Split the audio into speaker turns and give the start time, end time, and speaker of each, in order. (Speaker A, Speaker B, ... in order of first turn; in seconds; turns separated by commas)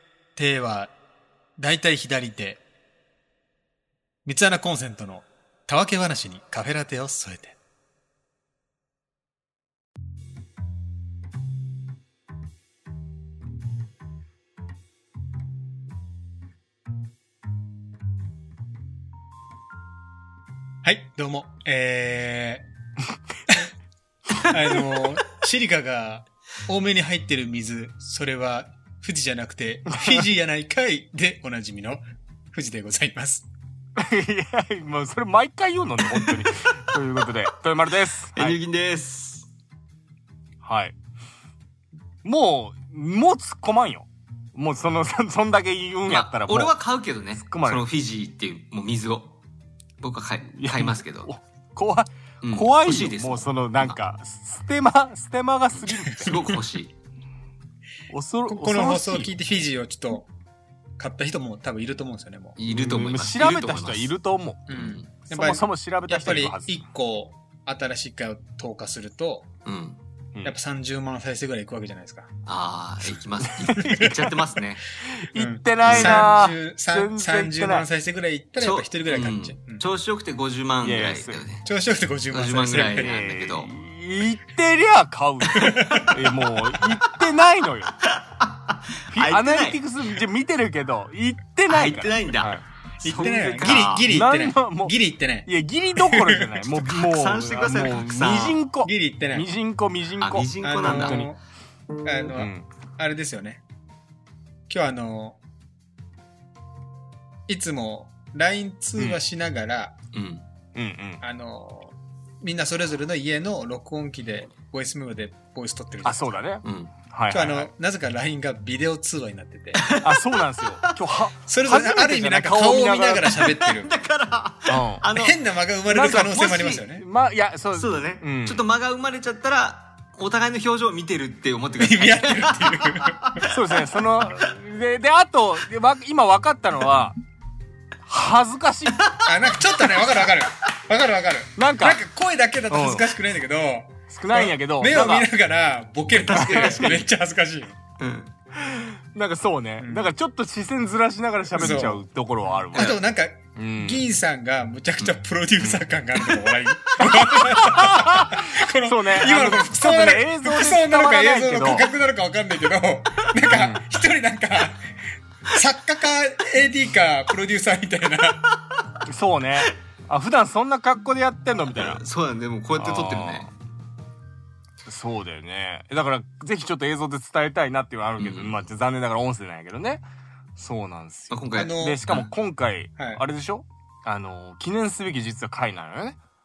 Speaker A: 0.3-0.9, Speaker A: 1.6-2.6, Speaker A: 4.2-7.6, Speaker A: 20.8-22.6, Speaker A: 24.4-33.5, Speaker B: 29.9-30.3, Speaker B: 34.0-38.6, Speaker C: 36.1-36.4, Speaker C: 38.3-39.5, Speaker B: 40.6-41.0, Speaker B: 42.2-46.7, Speaker C: 46.1-49.3, Speaker B: 47.4-47.9, Speaker C: 50.0-51.3, Speaker B: 50.5-56.6, Speaker C: 52.4-54.0, Speaker C: 55.8-56.9, Speaker B: 58.1-59.4, Speaker A: 58.5-60.3, Speaker A: 61.0-62.6, Speaker C: 62.6-64.1, Speaker B: 62.6-66.8, Speaker A: 64.7-69.5, Speaker C: 64.7-65.1, Speaker C: 69.6-70.0, Speaker A: 70.4-72.3, Speaker C: 72.5-74.8, Speaker B: 73.5-74.1, Speaker B: 75.1-77.9, Speaker A: 75.3-79.8, Speaker C: 75.8-76.3, Speaker C: 78.6-81.7, Speaker B: 80.8-81.5, Speaker A: 81.6-83.1, Speaker C: 82.3-83.8, Speaker B: 82.8-88.0, Speaker A: 85.6-86.1, Speaker C: 88.0-89.8, Speaker B: 89.1-92.6, Speaker C: 91.7-94.0, Speaker A: 93.0-96.6, Speaker B: 93.7-101.3, Speaker C: 96.7-98.6, Speaker A: 98.8-99.5, Speaker C: 100.2-101.3, Speaker A: 100.6-101.4, Speaker A: 102.0-103.6, Speaker B: 102.4-102.7, Speaker A: 104.7-105.4, Speaker A: 107.5-110.0, Speaker C: 110.1-110.5, Speaker B: 110.8-111.2, Speaker A: 111.2-116.4, Speaker B: 116.0-117.7, Speaker C: 116.6-116.9, Speaker A: 117.3-119.8, Speaker C: 119.7-121.0, Speaker B: 120.0-123.4, Speaker A: 121.5-123.9, Speaker C: 123.4-125.4, Speaker B: 124.7-125.1, Speaker A: 125.1-127.0, Speaker B: 125.9-128.6, Speaker C: 125.9-126.8, Speaker C: 127.7-134.5, Speaker A: 131.8-133.5, Speaker B: 133.5-137.2, Speaker B: 138.0-139.0, Speaker C: 139.0-140.3, Speaker A: 139.2-147.8, Speaker B: 141.6-142.0, Speaker B: 142.7-143.1, Speaker B: 144.1-145.3, Speaker C: 146.1-147.0, Speaker B: 146.3-147.0, Speaker C: 148.0-148.3, Speaker B: 148.5-153.0, Speaker A: 149.8-150.1, Speaker A: 151.5-152.0, Speaker C: 152.7-153.0, Speaker A: 152.7-168.4, Speaker B: 153.5-154.0, Speaker B: 155.6-155.8, Speaker B: 157.2-161.9, Speaker B: 163.5-163.8, Speaker B: 169.0-172.0, Speaker C: 171.7-173.5, Speaker B: 172.8-173.5, Speaker B: 174.8-180.0, Speaker C: 178.2-178.6, Speaker B: 180.6-186.2, Speaker C: 181.3-182.3, Speaker A: 181.5-182.0